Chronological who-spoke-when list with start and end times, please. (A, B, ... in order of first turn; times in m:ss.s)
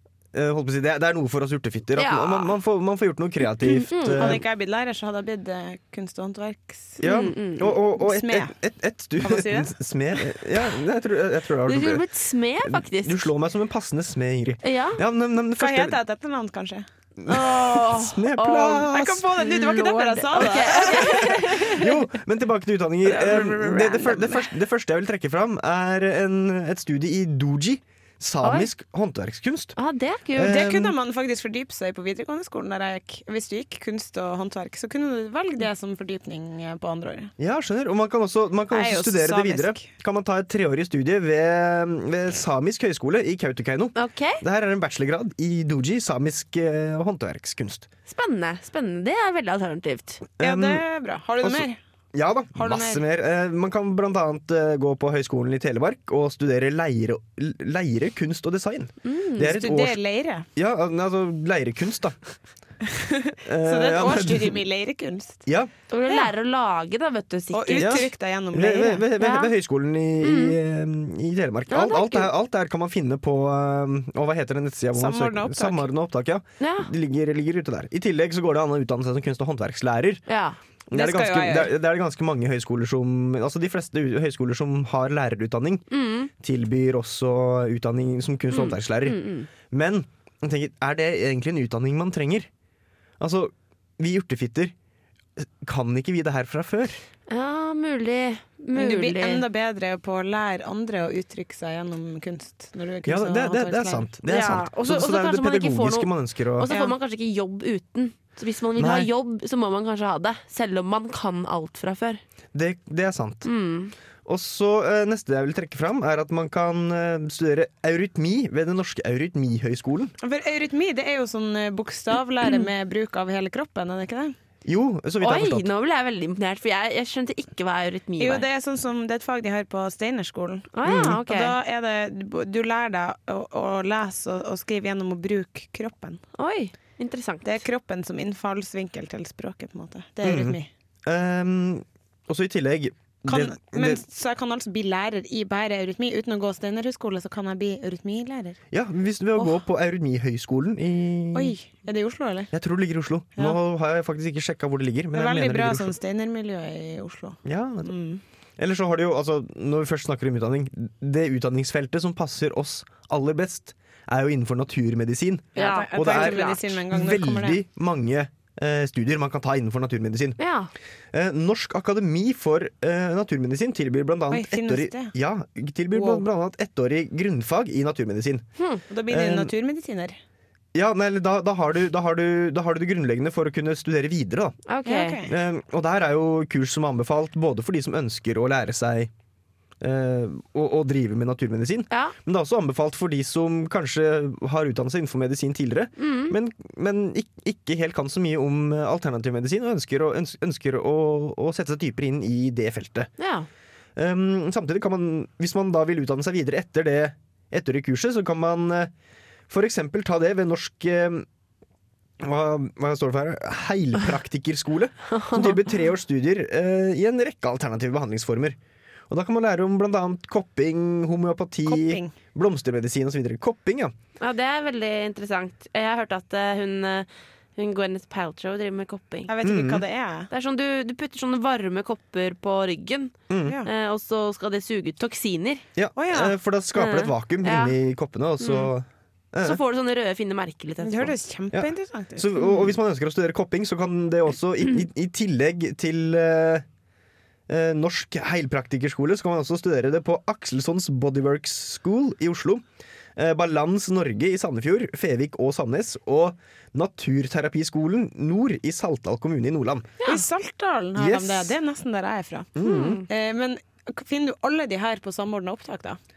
0:00.3-0:04.4 A
0:02.0-0:02.6 B
0:03.6-0:04.4 B
0:04.1-0:07.0 C
0:07.0-0:12.0 A
0:07.0-0:07.7 B
0:08.0-0:08.5 C
0:09.2-0:09.7 C
0:11.6-0:13.3 B
0:12.6-0:16.0 A
0:14.6-0:15.0 B
0:15.6-0:16.9 C
0:17.2-0:19.3 A
0:17.3-0:21.8 B
0:18.9-0:21.8 C
0:20.4-0:29.8 A
0:23.0-0:24.2 C
0:24.0-0:24.4 B
0:28.4-0:28.7 B
0:29.8-0:30.6 B
0:30.3-0:31.0 A
0:30.4-0:37.3 C
0:37.4-0:47.9 A
0:38.7-0:39.9 C
0:43.9-0:44.4 B
0:48.1-0:50.2 B
0:50.4-0:50.8 A
0:50.4-0:51.8 C
0:51.4-1:00.0 A
0:52.6-0:53.0 C
0:59.0-0:59.6 B
0:59.5-1:00.4 C
1:00.6-1:02.2 A
1:02.9-1:05.4 C
1:03.4-1:04.6 A
1:05.4-1:05.7 A
1:05.9-1:08.0 B
1:07.5-1:09.1 C
1:07.8-1:20.2 A
1:09.2-1:09.5 B
1:10.2-1:10.6 B
1:11.7-1:12.3 B
1:14.9-1:15.9 C
1:16.6-1:16.9 B
1:20.3-1:20.6 B
1:20.9-1:25.8 A
1:20.9-1:21.7 C
1:25.9-1:26.3 B
1:26.4-1:29.2 A
1:28.5-1:29.5 B
1:29.7-1:32.5 A
1:33.2-1:34.7 A
1:35.4-1:37.0 A
1:37.3-1:39.4 B
1:38.7-1:44.1 C
1:43.0-1:46.7 A
1:44.3-1:52.2 B
1:46.7-1:47.0 C
1:48.8-1:49.1 A
1:52.5-1:53.5 A
1:53.4-1:53.9 B
1:54.2-2:00.1 A
2:00.2-2:04.3 C
2:04.6-2:05.7 A
2:05.2-2:08.4 B
2:08.2-2:16.2 C
2:10.7-2:11.6 B
2:10.8-2:11.2 A
2:16.4-2:17.6 B
2:17.4-2:20.7 C
2:20.2-2:24.0 A
2:23.2-2:28.6 C
2:28.7-2:31.5 A
2:31.3-2:32.5 C
2:32.5-2:36.0 A
2:35.1-2:38.2 C
2:37.4-2:37.9 A
2:38.6-2:50.4 A
2:45.5-2:46.5 B
2:45.5-2:47.6 C
2:50.4-2:50.7 B
2:51.1-2:58.4 A
2:54.3-2:55.1 C
2:55.9-2:56.2 B
2:58.9-3:00.2 C
2:59.1-2:59.5 A
3:00.7-3:04.6 A
3:04.7-3:05.2 B
3:04.8-3:05.3 C
3:05.2-3:09.1 A
3:09.8-3:23.1 A
3:11.9-3:12.1 B
3:16.0-3:16.3 B
3:23.2-3:23.5 B
3:24.0-3:28.9 A
3:29.5-3:31.2 A
3:32.2-3:38.6 A
3:35.1-3:35.7 B
3:39.1-3:43.9 A
3:41.7-3:42.1 C
3:44.2-3:49.3 B
3:49.3-3:50.3 C
3:49.4-3:49.8 A
3:50.3-3:55.6 B
3:53.3-3:53.6 A
3:55.8-3:59.6 A
3:56.0-3:56.4 C
3:56.8-3:57.8 B
3:58.4-3:58.7 B
3:59.4-4:01.1 B
4:00.8-4:02.3 C
4:01.5-4:06.6 A
4:02.4-4:02.6 B
4:07.5-4:12.6 A
4:13.2-4:19.9 A
4:20.0-4:22.5 C
4:20.9-4:21.6 A
4:22.6-4:23.0 A
4:22.6-4:23.0 B
4:23.1-4:26.0 C